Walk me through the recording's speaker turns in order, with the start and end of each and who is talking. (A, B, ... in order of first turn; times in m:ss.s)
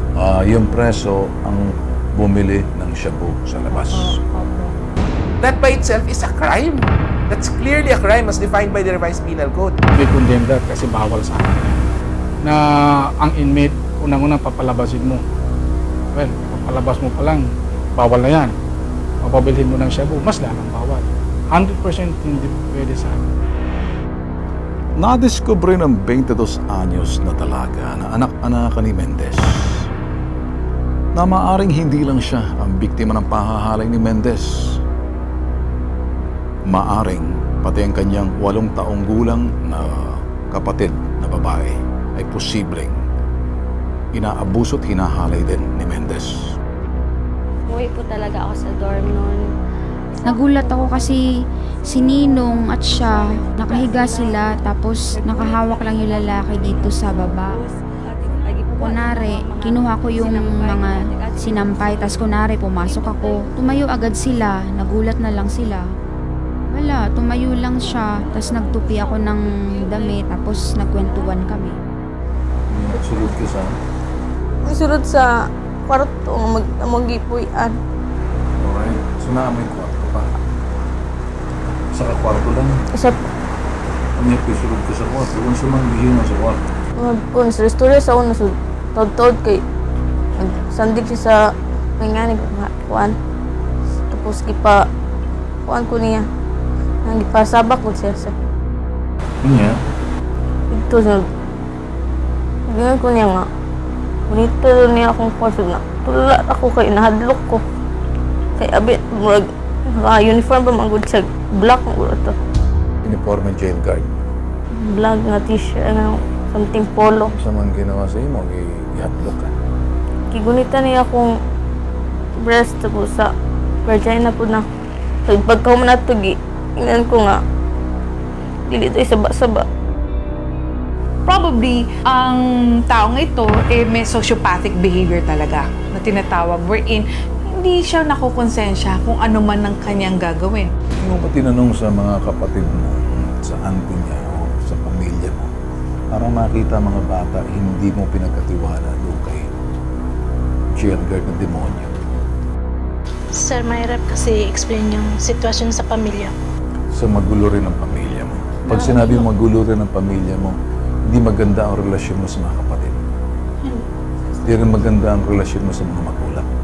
0:00.2-0:04.2 A
0:03.7-0:04.7 B
0:05.4-0:09.7 C
0:09.9-0:11.8 D
0:12.4-0:15.2 D
0:16.1-0:18.5 D
0:19.2-0:23.3 D
0:25.0-0:29.9 A
0:31.2-0:34.8 A
0:36.7-0:43.0 A
0:44.1-0:46.6 A
0:47.7-0:49.5 B
0:50.1-0:51.2 B
0:50.2-0:51.3 E
0:51.8-1:03.9 B
0:51.9-0:57.6 E
0:58.7-1:05.8 E
1:06.7-1:11.8 E
1:07.8-1:10.2 B
1:11.0-1:11.3 B
1:12.7-1:13.8 A
1:14.7-1:17.8 F
1:18.6-1:20.3 A
1:21.9-1:22.8 A
1:22.9-1:23.2 F
1:24.2-1:26.6 A
1:27.0-1:29.6 F
1:30.4-1:33.2 F
1:34.1-1:34.8 F
1:35.7-1:36.2 F
1:37.1-1:38.3 F
1:39.4-1:39.8 A
1:40.7-1:41.2 F
1:42.7-1:43.5 F
1:44.3-1:47.6 F
1:48.6-1:52.4 F
1:53.0-1:54.1 A
1:54.8-1:57.3 F
1:57.3-1:59.6 A
2:00.3-2:01.3 F
2:02.4-2:03.3 F
2:03.9-2:04.6 F
2:05.3-2:07.4 F
2:08.7-2:09.7 F
2:11.3-2:20.7 G
2:21.0-2:25.5 A
2:26.1-2:29.5 A
2:30.8-2:31.9 A
2:33.3-2:36.3 H
2:36.9-2:43.0 A
2:38.7-2:39.2 B
2:44.4-2:46.5 A